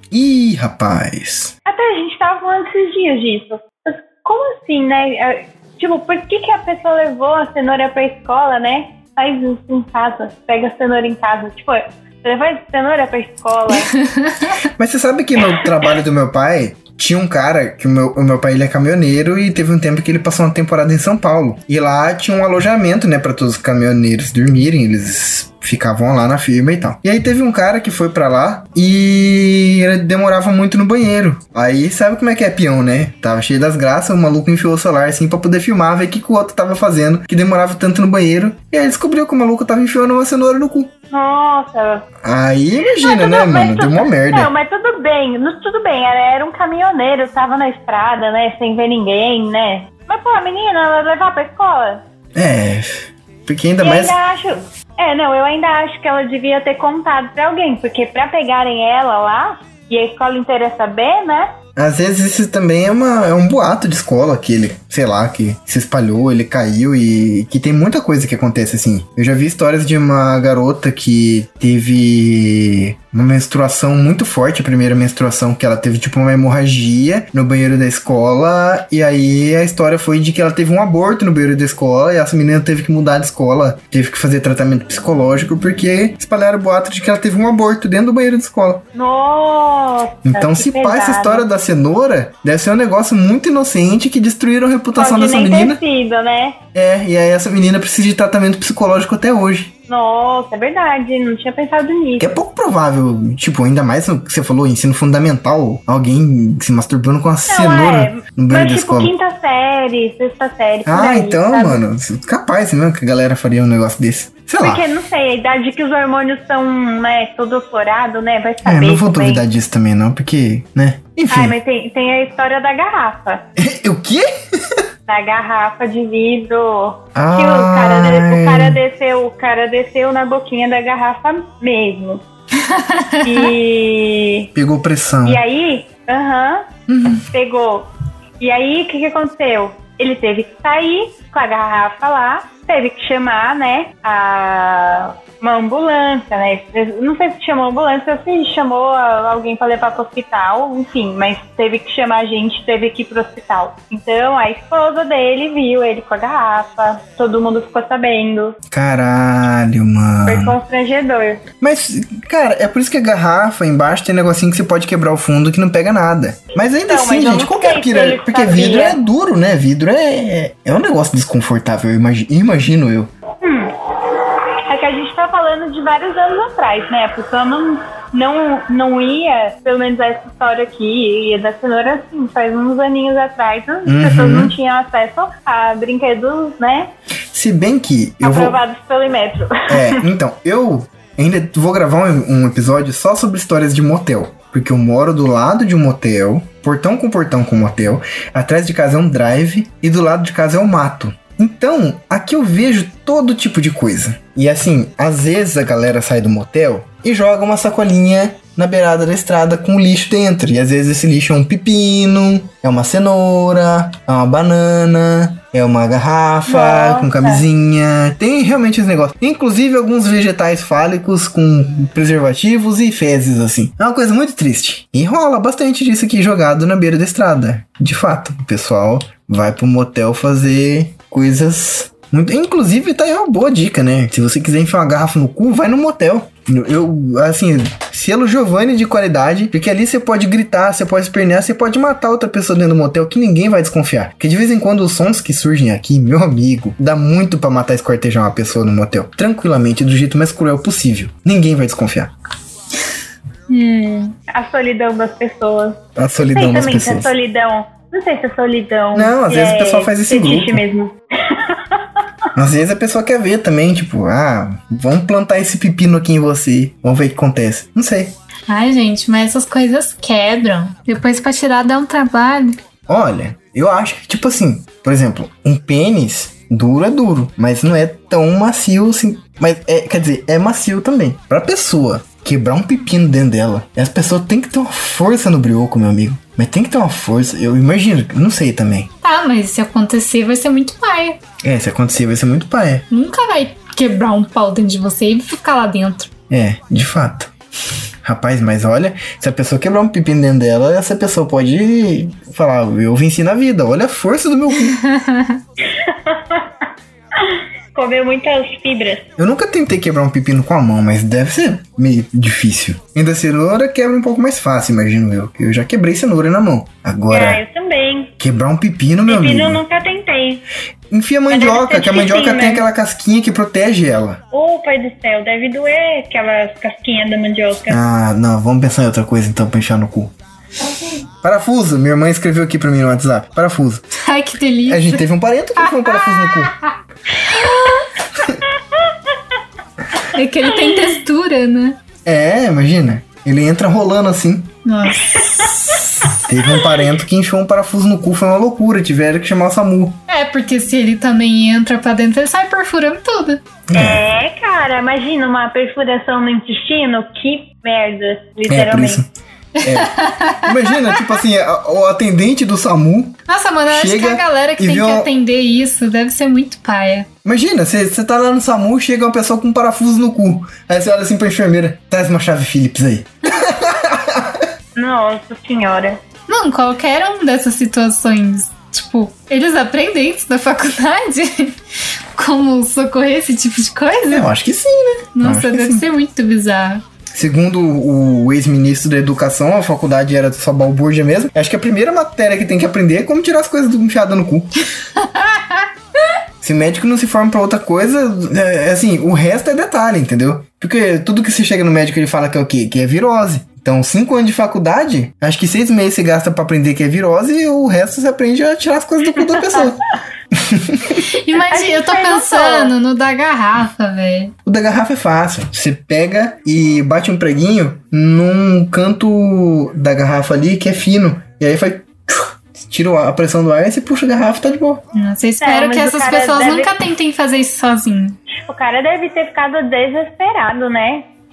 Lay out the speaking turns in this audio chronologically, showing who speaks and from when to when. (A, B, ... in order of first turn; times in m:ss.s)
0:00.1-0:01.5 A
0:01.7-0:14.0 B
0:14.0-0:14.6 C
0:14.8-0:40.9 A
0:41.1-0:42.1 B
0:42.2-0:44.5 A
0:43.0-0:52.0 B
0:52.4-0:54.1 A
0:53.8-1:01.5 B
1:01.8-1:28.8 A
1:28.9-1:31.5 B
1:30.3-1:35.8 A
1:35.0-1:36.6 B
1:36.7-1:39.7 A
1:39.9-1:42.3 B
1:42.2-1:49.1 A
1:47.5-1:51.8 B
1:50.9-1:54.8 A
1:54.6-1:59.4 B
1:58.6-2:01.6 A
2:01.3-2:03.4 B
2:03.6-2:04.8 A
2:05.1-2:12.2 B
2:07.2-2:08.8 A
2:12.6-2:13.5 C
2:13.2-2:14.5 B
2:14.6-2:15.4 A
2:15.2-2:16.7 B
2:16.9-2:17.3 A
2:17.3-2:17.9 B
2:18.4-2:38.6 B
2:38.7-2:40.6 A
2:40.3-2:41.4 B
2:41.6-2:53.1 A
2:46.9-2:49.0 B
2:53.4-2:53.7 B
2:54.7-3:06.9 B
3:03.9-3:04.5 A
3:07.3-3:08.6 A
3:08.2-3:10.0 B
3:09.7-4:12.1 A
3:36.5-3:37.4 B
4:13.5-4:14.2 C
4:14.3-4:21.8 B
4:16.0-4:17.1 A
4:18.9-4:20.6 A
4:22.4-4:28.1 A
4:28.5-4:32.6 C
4:32.9-4:48.9 A
4:49.0-4:51.2 C
4:51.4-4:52.9 A
4:52.9-4:56.1 C
4:56.3-4:57.3 A
4:58.0-5:04.8 A
5:04.8-5:05.4 C
5:05.7-5:06.4 B
5:07.2-5:09.1 B
5:09.2-5:17.4 A
5:17.1-5:18.1 B
5:18.2-5:19.6 A
5:19.1-5:20.4 B
5:20.9-5:24.2 A
5:21.3-5:22.7 B
5:24.3-5:27.8 B
5:27.7-5:30.1 A
5:31.2-5:33.8 A
5:33.9-5:35.0 C
5:34.7-5:36.6 A
5:35.6-5:37.9 C
5:38.2-5:38.4 A
5:40.1-5:41.8 C
5:42.0-5:44.5 A
5:44.6-5:45.5 C
5:45.3-5:50.0 A
5:50.1-5:53.4 C
5:53.7-5:54.0 A
5:53.7-5:59.0 B
5:58.5-5:59.1 A
5:59.6-6:01.2 C
5:59.6-6:05.1 A
6:03.3-6:07.1 C
6:07.2-6:14.4 A
6:14.8-6:16.0 B
6:16.3-6:24.3 C
6:24.1-6:25.9 A
6:25.2-6:26.8 C
6:27.1-6:34.5 A
6:35.0-6:35.7 C
6:36.4-6:49.8 A
6:49.3-6:49.8 B
6:50.3-6:51.1 A
6:51.0-6:54.3 C
6:51.5-6:52.7 B
6:54.5-7:04.8 A
7:04.9-7:08.2 C
7:05.4-7:06.7 B
7:08.5-7:11.1 B